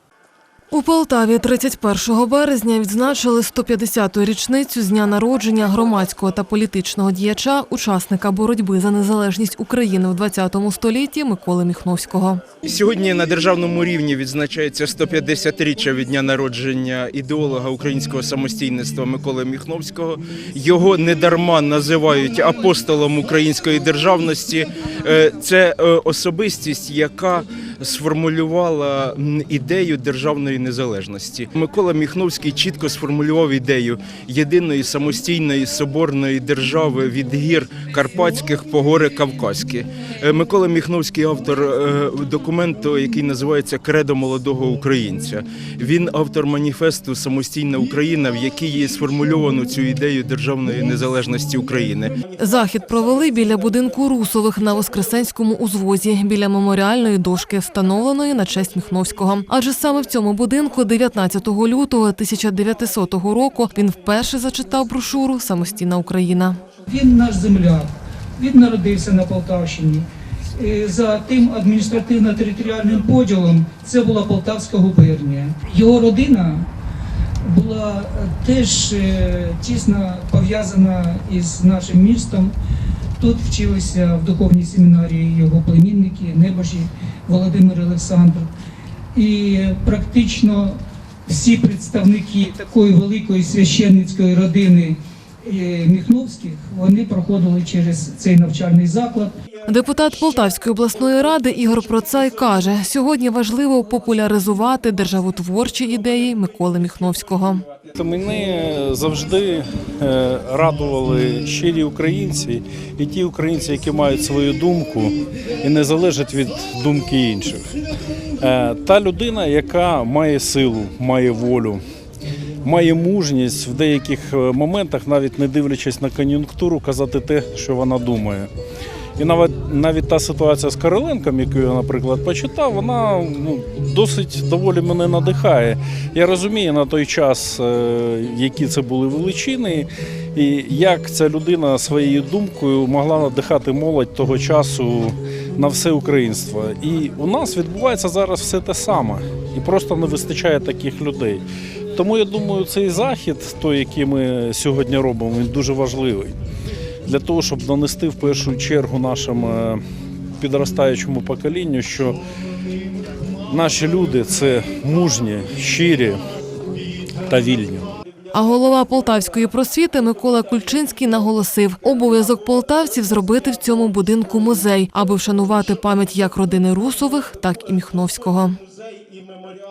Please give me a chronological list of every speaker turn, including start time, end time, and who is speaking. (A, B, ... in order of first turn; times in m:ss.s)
0:00.7-0:12.4 A
0:12.6-0:52.2 B
0:52.4-1:06.6 A
1:06.8-1:16.7 C
1:17.4-1:22.5 C
1:23.2-1:28.5 C
1:29.1-1:39.4 C
1:39.7-1:47.6 A
1:48.0-1:57.8 D
1:58.4-2:01.8 D
2:02.6-2:08.5 D
2:09.2-2:36.4 D
2:37.1-2:39.8 D
2:40.4-2:42.2 D
2:43.5-2:46.2 D
2:47.2-2:47.9 D
2:48.3-2:58.6 A